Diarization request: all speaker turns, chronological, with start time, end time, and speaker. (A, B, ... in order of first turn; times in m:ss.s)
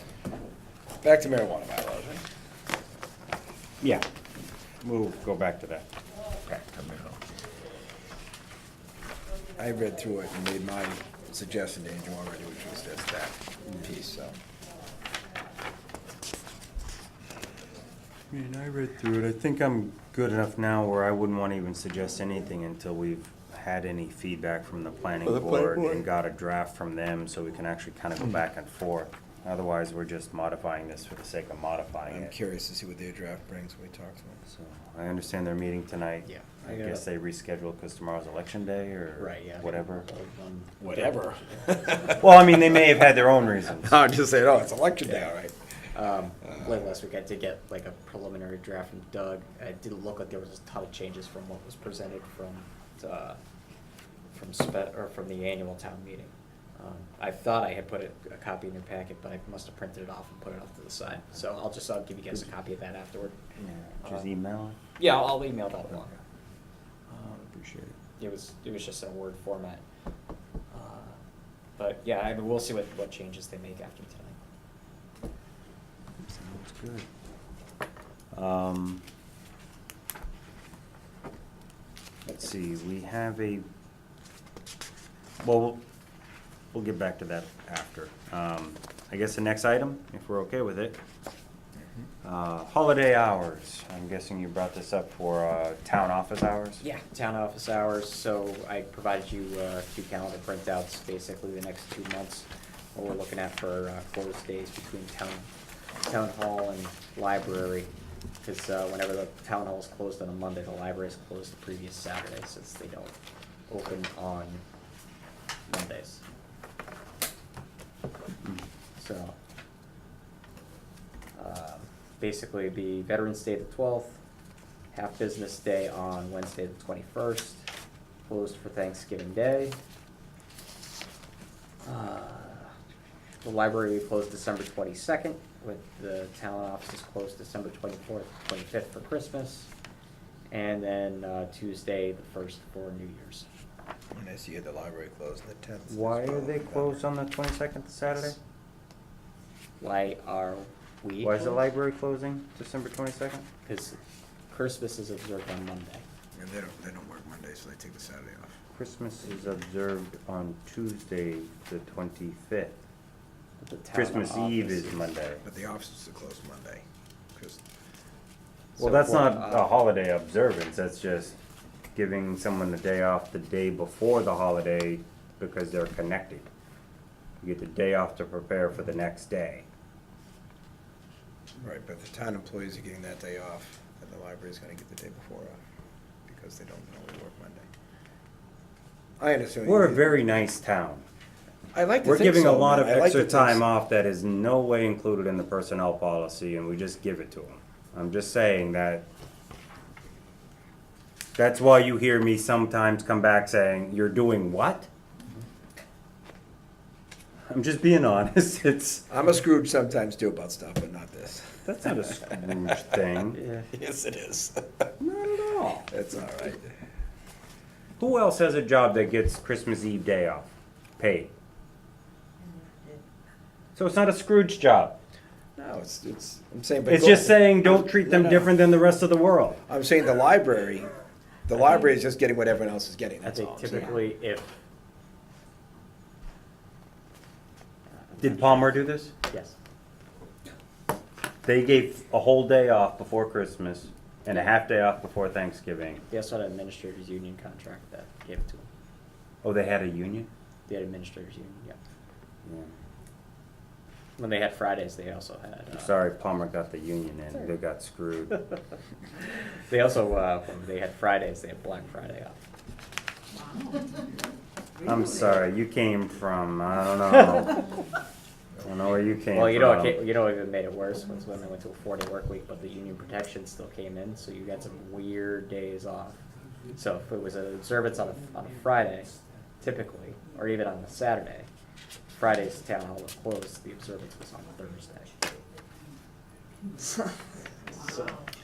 0:01.0-0:02.2 A
0:04.8-0:05.9 B
0:06.5-0:07.2 A
0:09.6-0:14.4 A
0:18.3-0:32.3 B
0:32.1-0:34.4 A
0:34.5-0:40.1 B
0:36.3-0:37.0 C
0:39.2-0:41.3 C
0:40.8-0:43.1 A
0:42.1-0:44.0 B
0:43.8-0:45.6 A
0:45.0-0:45.3 C
0:45.9-0:53.4 C
0:46.4-0:46.8 A
0:54.3-1:03.4 C
1:03.6-1:04.8 B
1:05.0-1:06.2 C
1:07.1-1:07.9 B
1:08.2-1:09.8 C
1:10.7-1:11.2 C
1:11.8-1:14.4 C
1:16.2-1:17.1 B
1:18.3-1:19.0 B
1:22.2-1:23.6 B
1:25.4-1:25.8 B
1:26.7-1:31.0 B
1:32.2-1:36.8 B
1:36.8-1:45.5 C
1:46.0-1:47.9 C
1:48.4-1:53.2 C
1:53.7-1:54.6 C
1:55.7-1:56.2 C
1:59.0-1:59.4 C
2:01.4-2:04.2 C
2:04.9-2:07.7 C
2:08.2-2:09.8 C
2:11.8-2:12.8 C
2:13.4-2:19.7 C
2:20.5-2:23.5 C
2:24.1-2:27.1 A
2:25.9-2:28.4 B
2:29.8-2:31.6 C
2:31.2-2:33.5 B
2:33.6-2:34.0 C
2:34.5-2:36.1 C
2:36.4-2:38.6 A
2:38.8-2:42.8 B
2:43.6-2:45.1 C
2:43.9-2:45.4 B
2:45.4-2:47.6 A
2:48.8-2:51.4 B
2:48.8-2:49.7 C
2:52.0-2:56.5 B
2:57.4-2:59.7 B
3:01.6-3:05.6 A
3:06.3-3:07.7 A
3:09.2-3:10.2 A
3:09.6-3:11.0 B
3:11.7-3:13.6 A
3:12.0-3:19.0 B
3:21.4-3:24.9 B
3:27.5-3:29.1 B
3:29.1-3:32.4 A
3:31.6-3:33.4 B
3:33.7-3:34.9 A
3:35.0-3:35.9 B
3:35.9-3:36.7 A
3:38.0-3:40.5 B
3:41.0-3:41.3 B
3:43.8-3:45.0 B
3:45.6-3:48.6 A
3:46.9-3:49.6 B
3:49.7-3:50.9 A
3:51.5-3:54.0 A
3:53.2-3:54.5 C
3:57.9-3:59.6 C
3:58.2-3:59.1 B
4:01.4-4:06.0 B
4:06.1-4:08.7 C
4:09.4-4:10.3 B
4:10.7-4:11.8 C
4:12.4-4:12.7 B
4:14.2-4:16.0 C
4:15.7-4:18.4 B
4:19.7-4:22.4 C
4:24.8-4:27.7 B
4:28.6-4:30.0 B
4:29.3-4:36.2 C
4:36.7-4:41.5 C
4:42.1-4:45.1 C
4:47.7-4:48.2 A